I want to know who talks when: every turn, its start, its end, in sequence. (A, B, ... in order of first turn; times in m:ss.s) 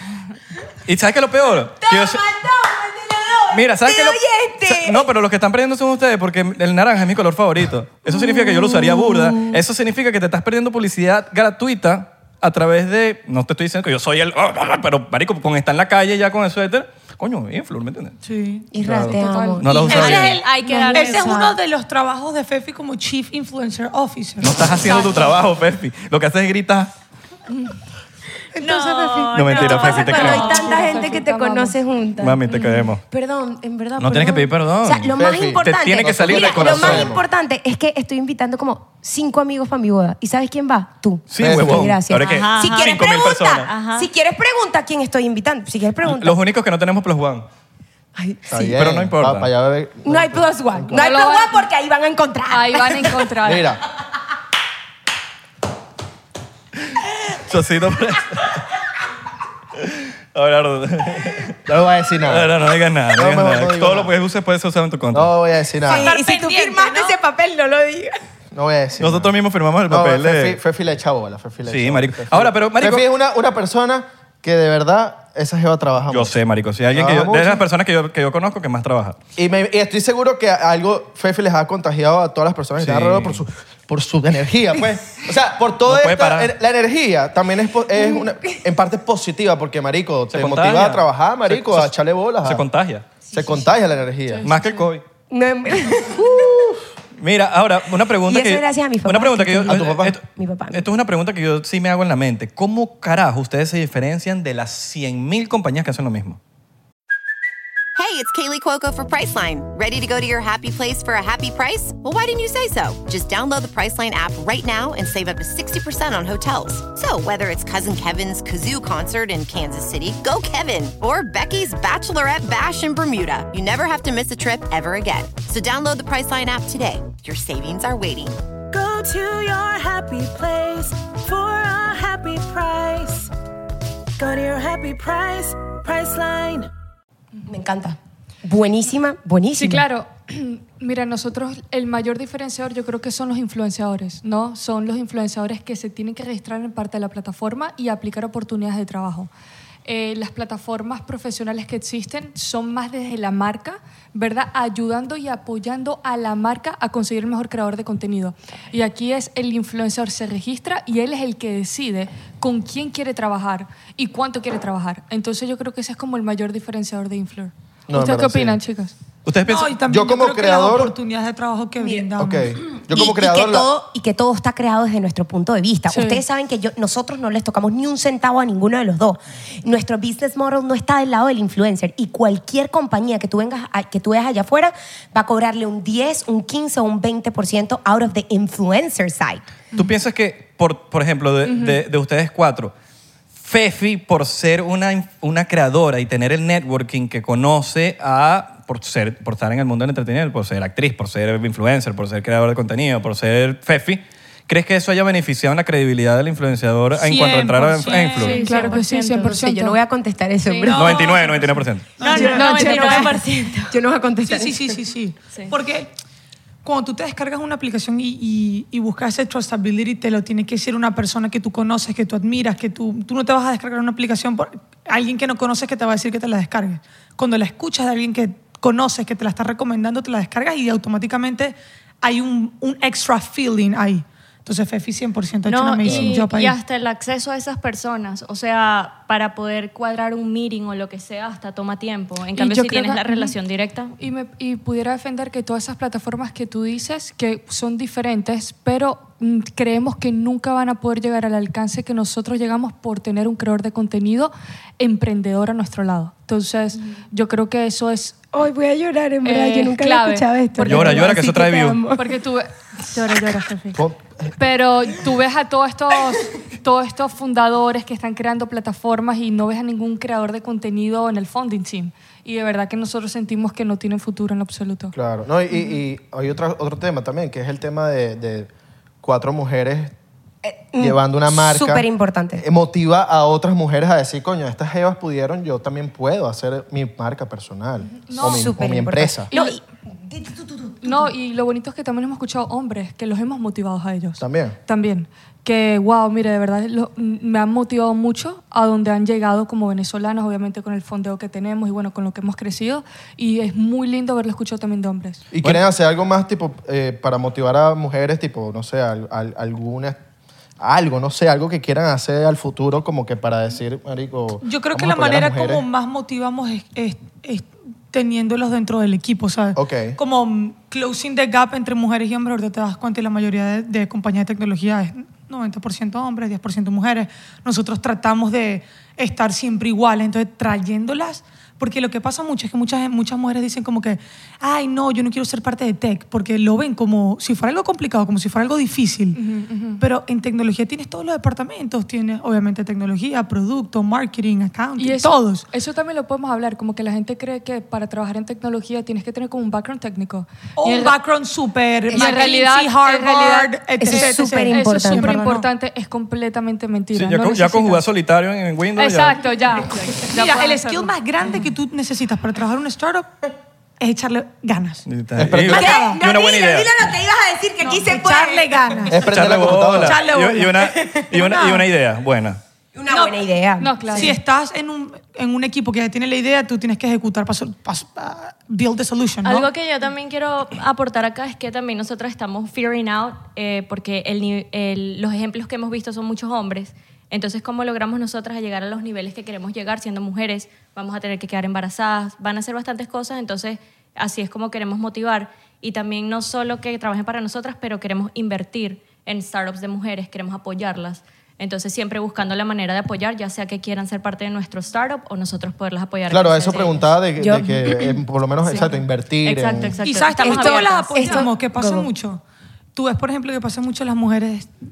0:00.9-0:02.2 A
0:01.8-0:05.1 B
0:03.5-0:18.2 A
0:08.1-0:09.6 B
0:18.2-0:18.7 C
0:18.7-0:21.6 B
0:18.8-0:20.4 A
0:18.9-0:20.0 D
0:19.7-0:25.2 C
0:19.9-0:21.4 E
0:24.4-0:26.9 A
0:28.5-0:29.8 C
0:28.6-0:31.1 E
0:29.3-0:30.5 A
0:29.5-0:46.4 B
0:30.1-0:31.8 D
0:32.2-0:33.0 A
0:32.5-0:32.8 E
0:34.0-0:37.1 A
0:35.2-0:37.2 F
0:41.3-0:43.7 A
0:41.4-0:42.0 F
0:42.2-0:44.1 E
0:46.0-0:47.5 A
0:48.2-0:48.8 B
0:48.5-0:51.0 F
0:48.7-0:49.5 A
0:50.0-0:53.3 B
0:50.9-0:51.7 D
0:52.5-0:53.7 D
0:53.4-0:53.8 F
0:57.4-0:58.6 A
0:59.8-1:01.6 A
1:01.7-1:02.6 F
1:02.2-1:05.3 A
1:03.1-1:04.1 F
1:05.1-1:06.1 F
1:05.8-1:08.2 B
1:05.9-1:07.2 C
1:08.5-1:16.4 F
1:09.0-1:10.6 A
1:11.7-1:13.1 A
1:16.1-1:19.2 A
1:16.9-1:17.6 F
1:19.4-1:32.7 F
1:22.8-1:23.4 A
1:25.9-1:26.5 A
1:28.0-1:28.5 B
1:30.3-1:33.1 A
1:33.3-1:33.7 B
1:33.3-1:34.5 F
1:34.3-1:34.9 D
1:34.4-1:35.0 A
1:35.3-1:36.7 B
1:36.3-1:36.7 F
1:37.2-1:46.4 A
1:38.3-1:40.9 B
1:39.7-1:40.1 F
1:48.0-2:08.4 G
2:08.7-2:13.3 H
2:14.2-2:16.7 H
2:17.5-2:19.8 B
2:19.6-2:29.3 D
2:29.8-2:49.0 D
2:47.9-2:48.6 F
2:49.2-2:49.7 A
2:49.4-2:52.6 C
2:49.8-2:51.0 F
2:51.8-2:52.1 B
2:52.2-2:53.7 F
2:52.7-3:09.5 B
2:55.9-2:56.2 D
3:09.7-3:12.7 A
3:11.4-3:11.8 D
3:13.4-3:28.4 A
3:26.9-3:28.7 C
3:27.9-3:29.4 E
3:28.2-3:29.8 D
3:29.2-3:31.2 B
3:30.4-3:31.2 E
3:30.6-3:33.1 C
3:30.7-3:32.0 A
3:32.0-3:33.7 E
3:32.0-3:34.8 B
3:32.3-3:33.1 D
3:34.2-3:35.9 C
3:36.6-3:56.6 C
3:55.5-4:04.0 E
4:02.4-4:03.4 D
4:04.0-4:18.2 D
4:18.3-4:22.1 B
4:19.2-4:21.3 D
4:20.7-4:21.8 A
4:21.8-4:23.8 D
4:23.8-4:24.3 F
4:24.4-4:34.9 D
4:34.9-4:38.5 F
4:39.0-4:39.9 F
4:40.4-4:42.4 B
4:40.8-4:41.8 F
4:42.4-4:49.3 F
4:47.9-4:48.6 D
4:48.2-4:51.1 B
4:49.3-4:49.6 D
4:50.8-5:05.2 D
4:54.2-4:54.6 F
5:05.3-5:10.0 F
5:10.6-5:15.6 F
5:14.4-5:39.2 C
5:19.6-5:20.0 F
5:39.1-5:39.8 D
5:39.8-5:45.5 C
5:44.8-5:51.0 D
5:50.6-5:55.5 C
5:51.9-5:57.8 D
5:51.9-5:52.3 B
5:53.8-5:55.2 B
5:56.9-5:59.2 A
5:58.8-6:00.9 D
6:00.1-6:03.1 C
6:03.8-6:04.9 C
6:04.9-6:06.8 A
6:05.2-6:05.8 F
6:05.5-6:08.9 B
6:05.6-6:06.0 C
6:07.6-6:11.7 C
6:08.9-6:10.1 F
6:09.1-6:12.4 A
6:12.7-6:14.2 B
6:12.9-6:13.2 C
6:13.6-6:14.2 D
6:13.9-6:19.5 C
6:19.2-6:46.9 E
6:46.1-6:49.8 F
6:47.2-6:48.0 B
6:49.2-6:51.3 E
6:49.8-6:52.2 C
6:50.2-6:51.9 B
6:52.8-6:54.5 C